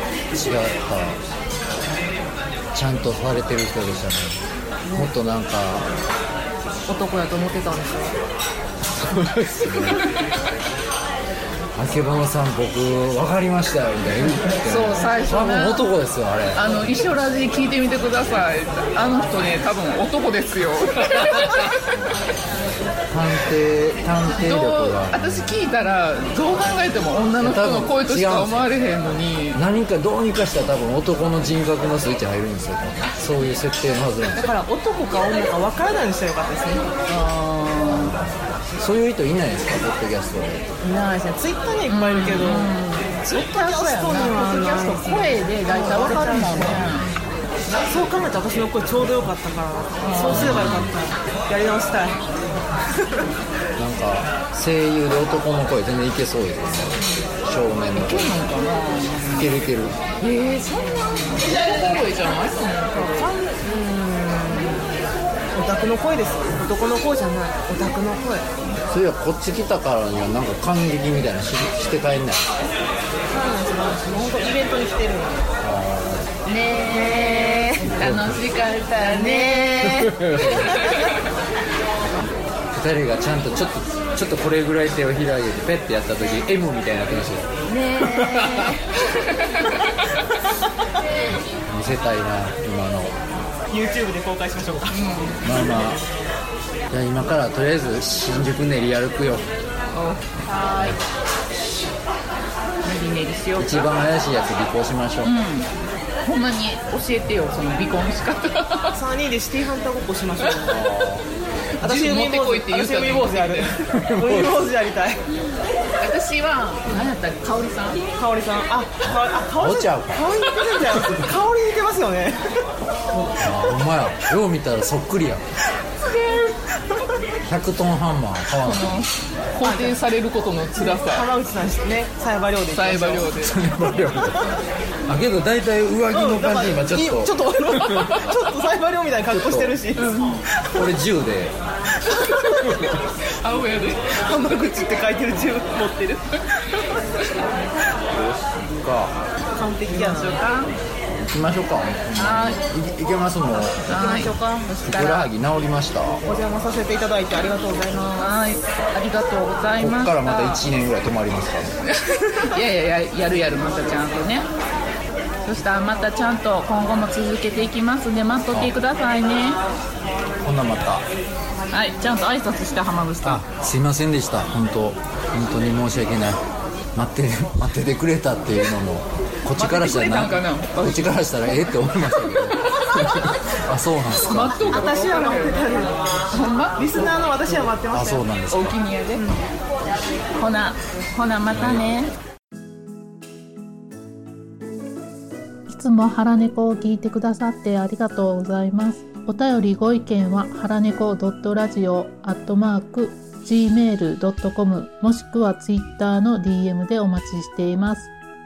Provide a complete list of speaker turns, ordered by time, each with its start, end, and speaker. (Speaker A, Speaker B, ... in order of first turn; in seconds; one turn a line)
Speaker A: 0.3-1.2
Speaker A: 2.7-4.4
Speaker B: 4.9-5.1
Speaker A: 5.0-5.9
Speaker B: 6.9-8.2
Speaker A: 9.0-10.0
Speaker A: 11.8-16.7
Speaker C: 14.7-15.8
Speaker C: 16.6-21.8
Speaker A: 23.1-25.6
Speaker C: 24.4-29.6
Speaker A: 27.4-28.7
Speaker A: 29.5-34.5
Speaker B: 34.4-36.9
Speaker C: 37.1-38.2
Speaker A: 37.9-40.6
Speaker B: 40.8-46.8
Speaker C: 41.9-47.1
Speaker A: 46.6-47.3
Speaker B: 47.8-52.2
Speaker C: 50.0-50.6
Speaker A: 50.3-51.0
Speaker A: 53.8-58.4
Speaker C: 58.0-59.5
Speaker A: 59.3-60.0
Speaker C: 60.2-63.0
Speaker B: 62.9-64.9
Speaker B: 65.5-68.5
Speaker A: 68.9-72.5
Speaker B: 73.3-75.5
Speaker A: 75.6-76.3
Speaker B: 76.5-77.9
Speaker C: 76.5-80.1
Speaker A: 77.8-78.4
Speaker B: 78.8-80.9
Speaker A: 79.8-80.8
Speaker C: 80.7-81.1
Speaker A: 82.7-88.8
Speaker B: 87.7-88.8
Speaker C: 89.1-89.9
Speaker A: 91.3-93.2
Speaker B: 93.7-95.0
Speaker C: 94.9-95.4
Speaker A: 95.4-96.0
Speaker A: 96.9-99.5
Speaker C: 99.9-100.2
Speaker B: 100.5-101.0
Speaker C: 102.8-103.9
Speaker A: 103.6-105.4
Speaker C: 105.2-105.7
Speaker C: 106.2-109.0
Speaker B: 108.9-110.8
Speaker A: 110.6-111.3
Speaker B: 111.8-115.2
Speaker C: 111.8-113.7
Speaker A: 114.0-114.5
Speaker C: 116.0-118.0
Speaker B: 118.2-122.6
Speaker A: 119.6-120.2
Speaker A: 123.4-125.4
Speaker A: 127.4-129.1
Speaker C: 128.6-131.2
Speaker B: 129.6-130.0
Speaker B: 131.1-133.3
Speaker C: 132.7-133.6
Speaker A: 133.4-134.5
Speaker A: 135.1-137.3
Speaker B: 136.1-140.8
Speaker A: 137.9-138.2
Speaker A: 139.3-139.8
Speaker C: 140.0-140.4
Speaker A: 140.8-141.6
Speaker C: 143.4-144.1
Speaker B: 144.1-146.4
Speaker A: 148.1-149.2
Speaker B: 149.5-150.4
Speaker C: 149.9-150.8
Speaker A: 151.2-153.9
Speaker C: 152.2-152.6
Speaker B: 153.9-154.9
Speaker C: 153.9-155.3
Speaker A: 154.9-156.2
Speaker B: 156.2-158.3
Speaker C: 158.2-160.7
Speaker A: 159.8-161.7
Speaker C: 162.0-164.5
Speaker C: 165.4-169.6
Speaker A: 170.4-171.1
Speaker C: 171.7-173.4
Speaker A: 173.2-176.4
Speaker A: 177.0-184.8
Speaker C: 179.5-180.8
Speaker C: 184.3-185.6
Speaker B: 184.7-188.2
Speaker C: 186.3-186.8
Speaker A: 187.9-188.8
Speaker C: 188.5-189.3
Speaker B: 189.2-189.4
Speaker C: 190.4-192.1
Speaker D: 195.7-208.1